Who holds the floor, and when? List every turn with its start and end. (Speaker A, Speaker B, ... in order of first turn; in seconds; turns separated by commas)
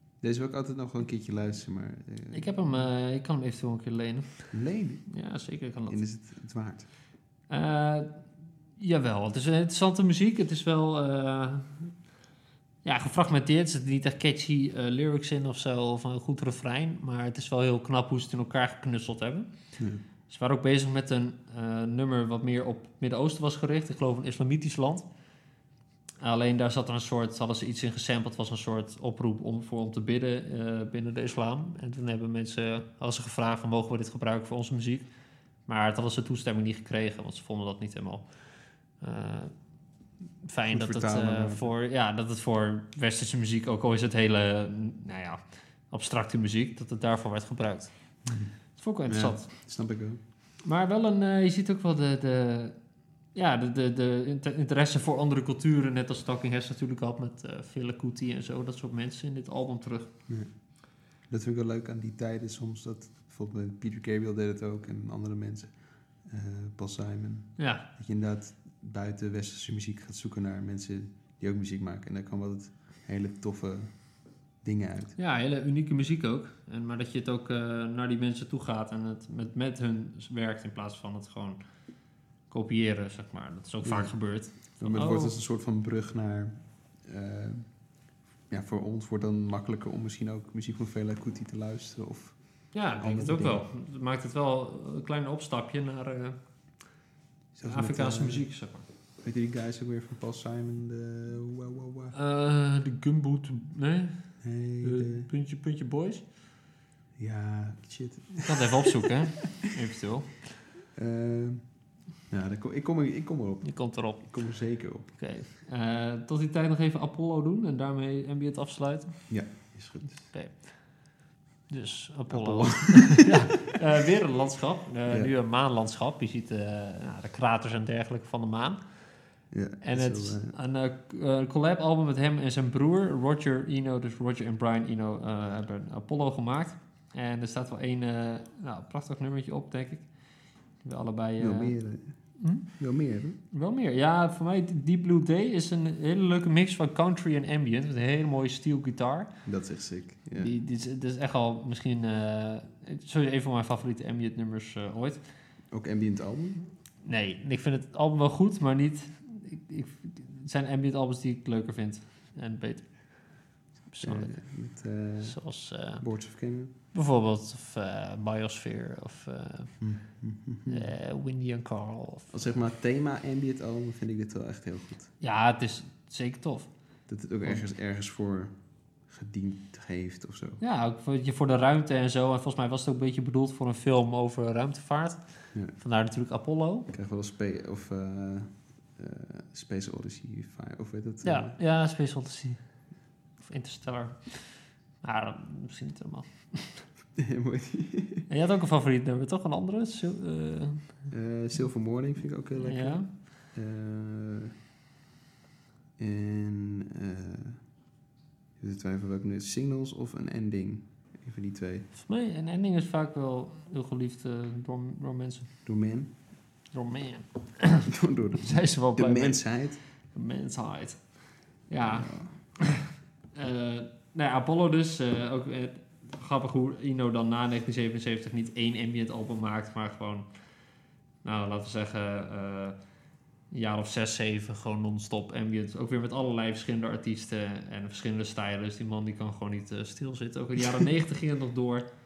Speaker A: 0.2-2.9, Speaker B: 2.3-4.5, Speaker A: 4.5-5.1, Speaker B: 5.1-6.0, Speaker A: 5.9-6.9, Speaker B: 7.5-8.2, Speaker B: 8.8-11.9, Speaker B: 12.8-19.7, Speaker B: 20.3-25.1, Speaker B: 26.2-35.1, Speaker B: 35.6-39.6, Speaker B: 40.4-45.4, Speaker A: 40.7-41.7, Speaker B: 45.9-48.2, Speaker A: 48.2-48.5, Speaker B: 48.7-49.6, Speaker A: 49.1-50.2, Speaker B: 50.6-52.8, Speaker B: 53.3-60.1, Speaker A: 61.2-73.9, Speaker B: 67.6-67.8, Speaker A: 74.6-75.2, Speaker B: 75.2-81.6, Speaker B: 82.5-85.3, Speaker A: 83.8-87.8, Speaker A: 88.5-93.6, Speaker B: 92.7-96.3, Speaker A: 97.5-98.5, Speaker B: 97.6-98.8, Speaker A: 99.2-102.1, Speaker B: 102.1-106.2, Speaker A: 104.4-105.3, Speaker A: 107.2-109.1, Speaker B: 108.4-110.4, Speaker A: 110.9-111.6, Speaker A: 112.3-115.1, Speaker B: 113.6-114.3, Speaker B: 115.1-119.5, Speaker A: 119.3-120.3, Speaker B: 120.3-128.8, Speaker A: 122.3-123.4, Speaker A: 125.1-125.3, Speaker A: 129.5-130.6, Speaker B: 129.8-140.2, Speaker B: 140.8-141.8, Speaker A: 141.4-143.4, Speaker B: 142.4-142.8, Speaker B: 143.5-149.4, Speaker A: 149.4-150.5, Speaker B: 150.3-155.2, Speaker A: 155.7-156.6, Speaker B: 157.0-170.1, Speaker A: 164.0-166.7, Speaker A: 169.8-170.9, Speaker B: 170.7-172.3, Speaker A: 172.3-175.1, Speaker B: 175.2-176.7, Speaker A: 177.1-178.5, Speaker A: 179.0-180.6, Speaker B: 180.6-186.9, Speaker A: 186.9-191.6, Speaker B: 191.2-192.6, Speaker B: 193.4-196.8, Speaker A: 197.2-198.3, Speaker B: 198.3-201.0, Speaker A: 201.1-204.5, Speaker B: 202.6-203.1, Speaker A: 206.0-207.6, Speaker A: 208.6-211.9, Speaker B: 212.0-215.5, Speaker A: 215.7-216.1, Speaker B: 216.7-217.9, Speaker A: 217.9-219.8, Speaker B: 218.4-230.2, Speaker A: 221.8-222.4, Speaker B: 231.2-232.8, Speaker B: 233.5-241.8